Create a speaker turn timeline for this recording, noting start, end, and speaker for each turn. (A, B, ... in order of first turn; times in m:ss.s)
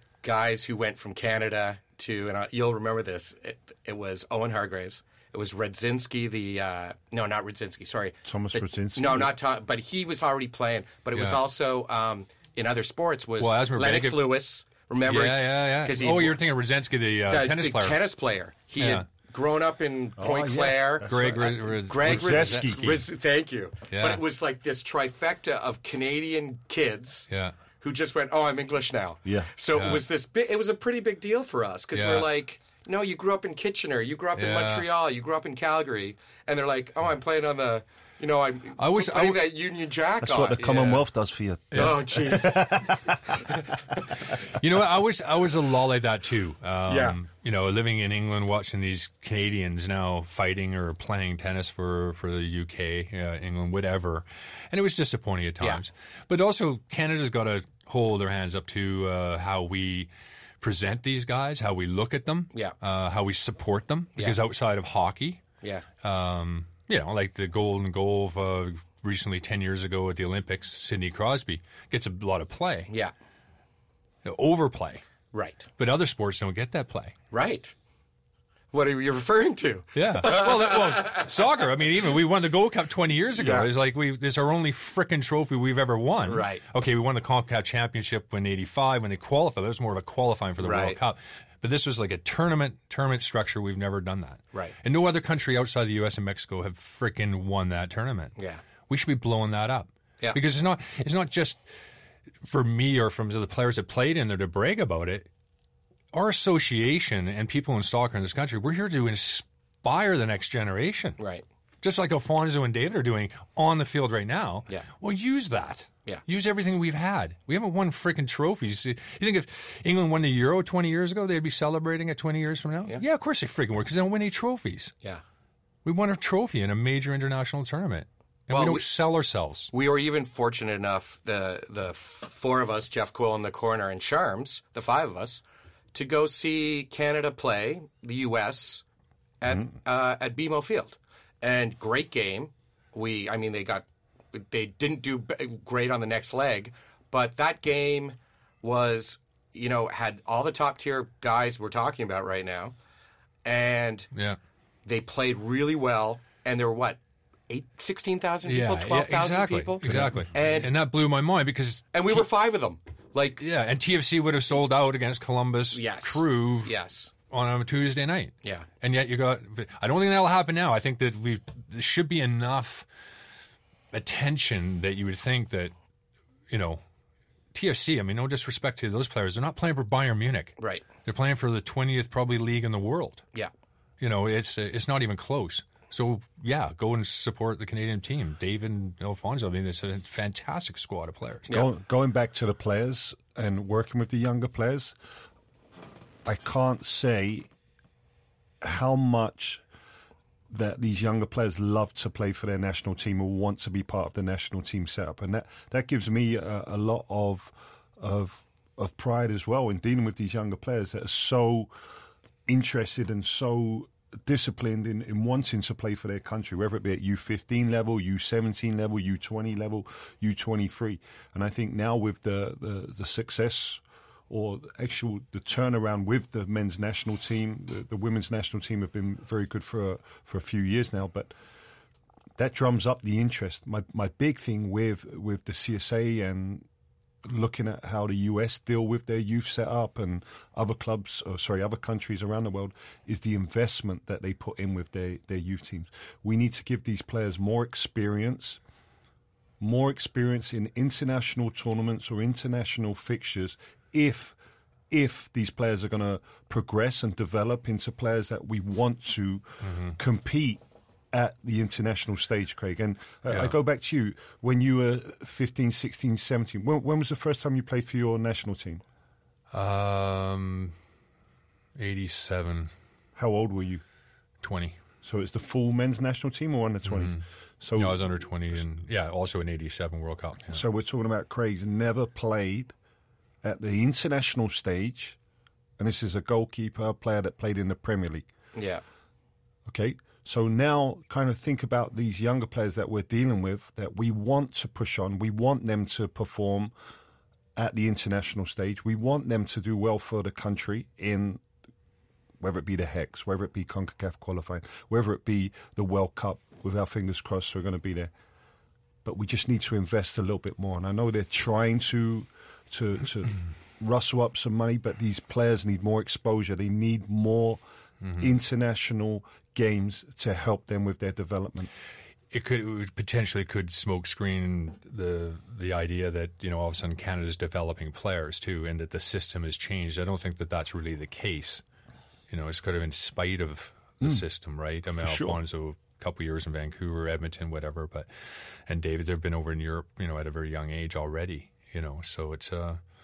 0:00.2-0:16.4 A
0:08.2-0:09.3 B
0:11.1-0:11.4 C
0:13.4-0:14.4 C
0:15.0-0:18.0 C
0:17.3-0:27.3 A
0:18.8-0:19.0 C
0:20.2-0:22.9 B
0:21.0-0:23.1 C
0:23.9-0:24.2 C
0:27.3-0:27.5 C
0:27.8-0:41.0 A
0:29.2-0:29.5 B
0:29.7-0:30.0 C
0:31.9-0:32.3 C
0:34.4-0:34.9 C
0:38.8-0:39.5 C
0:40.2-0:43.4 B
0:41.7-0:42.1 C
0:41.7-0:42.7 A
0:44.6-1:00.1 C
0:46.9-0:47.2 A
1:00.6-1:05.4 C
1:06.0-1:12.9 C
1:14.2-1:15.0 C
1:15.3-1:15.7 A
1:15.8-1:17.1 C
1:17.3-1:17.7 A
1:18.7-1:21.2 A
1:19.9-1:38.3 C
1:23.4-1:23.7 A
1:26.2-1:26.6 A
1:30.6-1:31.0 A
1:38.4-1:38.6 A
1:38.9-1:41.6 C
1:42.4-1:45.3 C
1:46.1-1:51.2 C
1:51.2-1:51.4 A
1:51.8-2:04.9 C
2:05.8-2:09.7 C
2:08.5-2:08.8 A
2:09.7-2:15.4 A
2:15.9-2:18.8 A
2:19.4-2:32.7 A
2:33.4-2:34.1 A
2:34.8-2:37.0 A
2:37.5-2:40.7 A
2:38.4-2:42.3 C
2:39.8-2:40.2 B
2:41.9-2:43.4 A
2:43.4-2:46.7 C
2:45.7-2:47.1 A
2:47.3-2:52.9 C
2:53.9-2:55.7 C
2:56.5-2:56.8 C
2:57.5-3:03.2 C
3:00.6-3:00.8 A
3:04.0-3:11.5 C
3:11.5-3:15.0 B
3:16.2-3:17.5 B
3:18.6-3:19.6 B
3:20.5-3:31.7 B
3:32.4-3:51.3 B
3:52.4-3:56.6 B
3:57.2-4:08.6 B
4:09.6-4:14.4 B
4:14.9-4:20.6 B
4:19.6-4:20.0 C
4:21.1-4:28.8 B
4:23.3-4:23.6 C
4:29.5-4:30.7 C
4:31.8-4:32.7 C
4:33.2-4:33.8 B
4:34.4-4:34.8 C
4:35.0-4:38.0 B
4:36.8-4:37.2 C
4:37.7-4:40.6 C
4:40.5-4:42.7 B
4:43.4-4:45.2 B
4:45.8-4:48.3 B
4:48.5-4:48.8 A
4:49.6-4:56.7 B
4:57.6-5:01.4 B
5:02.4-5:08.1 B
5:09.0-5:17.6 B
5:18.0-5:18.3 C
5:18.2-5:21.7 B
5:22.3-5:31.6 C
5:32.3-5:38.1 C
5:35.0-5:35.4 B
5:38.7-5:42.8 C